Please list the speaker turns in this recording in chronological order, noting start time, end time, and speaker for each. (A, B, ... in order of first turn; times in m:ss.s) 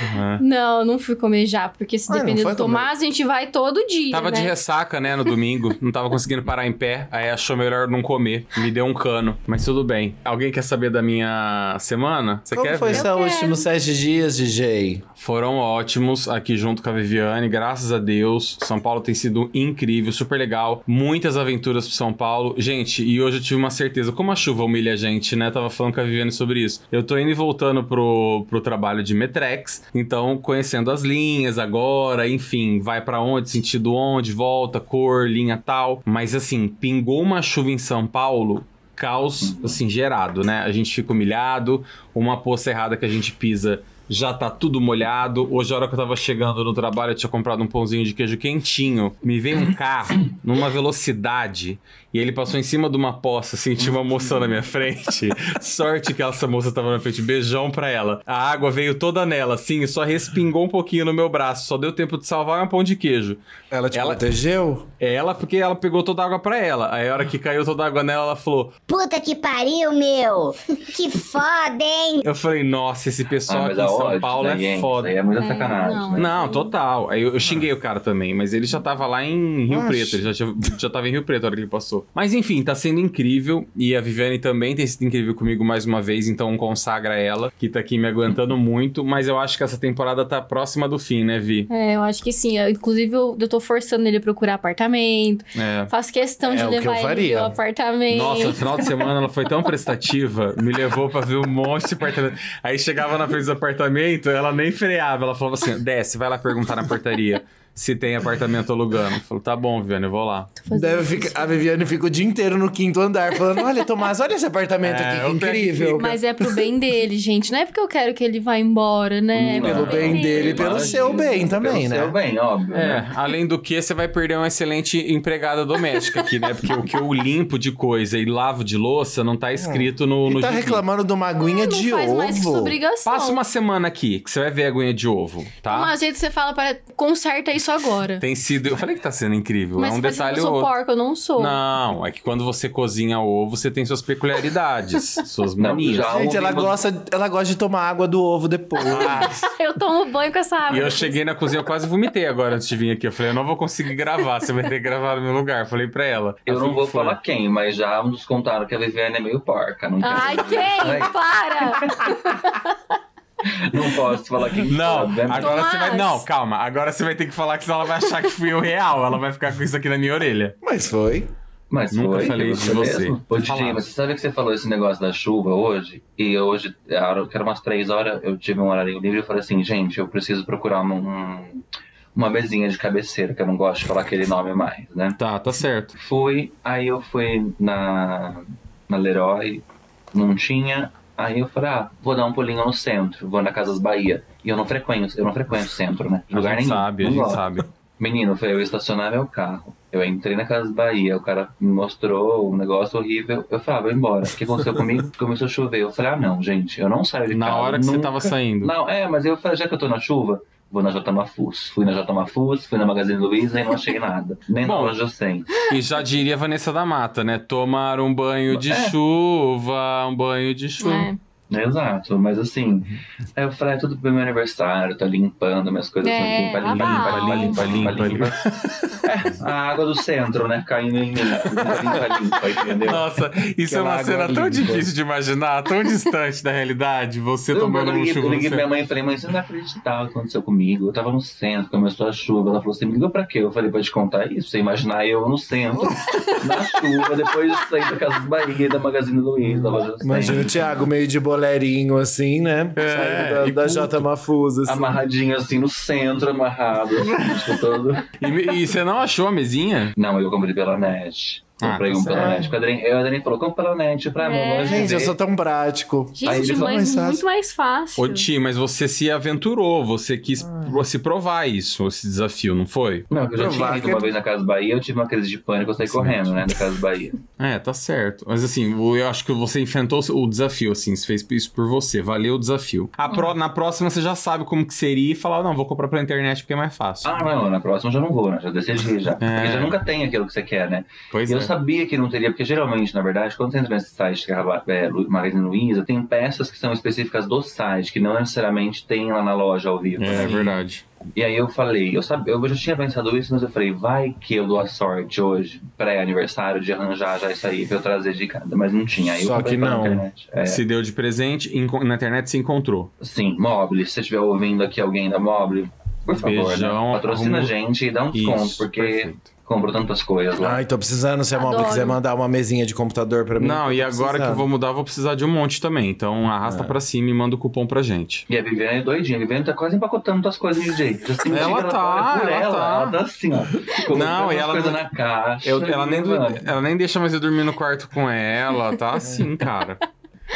0:00.1-0:00.4 A
0:00.4-0:04.6 B
0:02.1-0:02.9 C
0:04.1-0:13.1 A
0:12.5-0:15.0 C
0:12.9-0:13.6 B
0:15.2-1:03.4 A
0:39.4-0:39.8 D
0:53.8-0:54.4 D
1:03.7-1:04.9 C
1:03.9-1:04.2 A
1:05.0-1:08.8 A
1:08.9-1:12.2 E
1:12.2-1:15.2 A
1:13.5-1:16.3 D
1:15.4-1:16.7 B
1:16.2-1:31.7 A
1:19.7-1:20.3 C
1:31.7-1:38.9 B
1:35.6-1:35.9 A
1:36.4-1:37.6 C
1:38.1-1:50.5 A
1:50.6-1:51.6 B
1:50.7-1:56.6 C
1:54.8-1:56.0 A
1:56.0-2:01.4 B
1:59.3-2:03.0 D
1:59.6-2:02.2 C
1:59.6-2:00.0 A
2:02.7-2:10.8 A
2:09.6-2:12.8 C
2:11.4-2:13.4 B
2:13.1-2:15.9 A
2:15.7-2:18.2 B
2:18.2-2:20.7 A
2:19.8-2:21.6 B
2:21.4-2:26.1 A
2:25.6-2:26.8 D
2:26.1-2:29.3 C
2:28.8-2:31.2 B
2:28.9-2:29.5 A
2:30.7-2:37.2 A
2:36.5-2:42.2 D
2:40.0-2:42.8 B
2:43.4-2:45.6 D
2:44.6-2:50.6 A
2:45.3-2:46.3 B
2:50.6-2:51.3 C
2:51.7-3:05.2 D
2:51.9-2:53.8 A
3:05.2-3:06.0 A
3:06.0-3:35.6 D
3:16.3-3:17.6 A
3:27.3-3:28.7 A
3:34.6-3:35.0 A
3:35.7-3:41.1 A
3:38.5-3:39.0 D
3:40.8-3:41.2 B
3:41.5-3:48.5 D
3:46.0-3:48.0 B
3:46.6-3:48.3 A
3:49.0-3:49.4 A
3:49.3-3:53.0 D
3:51.5-3:52.2 C
3:52.9-3:58.6 A
3:53.7-3:54.9 C
3:57.5-4:10.5 D
4:06.1-4:07.0 B
4:09.4-4:15.0 C
4:12.8-4:14.1 A
4:14.6-4:18.1 D
4:18.2-4:20.0 A
4:20.0-4:25.2 D
4:21.6-4:22.3 A
4:22.0-4:22.5 C
4:24.2-4:24.9 B
4:24.6-4:27.2 C
4:26.2-4:28.3 B
4:26.2-4:26.9 D
4:28.0-4:33.1 A
4:30.4-4:30.8 C
4:33.1-4:37.1 D
4:33.4-4:34.1 C
4:35.9-4:36.2 A
4:35.9-4:36.2 C
4:37.4-4:47.1 A
4:47.0-5:00.6 D
4:49.2-4:49.8 A
4:51.1-4:51.5 A
5:00.0-5:00.8 A
5:01.1-5:10.6 D
5:09.0-5:10.1 C
5:10.4-5:12.9 A
5:13.0-5:20.6 D
5:16.2-5:17.5 A
5:18.1-5:19.2 A
5:20.4-5:24.5 C
5:21.4-5:22.0 B
5:23.4-5:28.2 A
5:26.4-5:26.8 C
5:28.3-5:36.5 D
5:31.3-5:33.0 A
5:33.9-5:34.9 A
5:35.4-5:39.8 A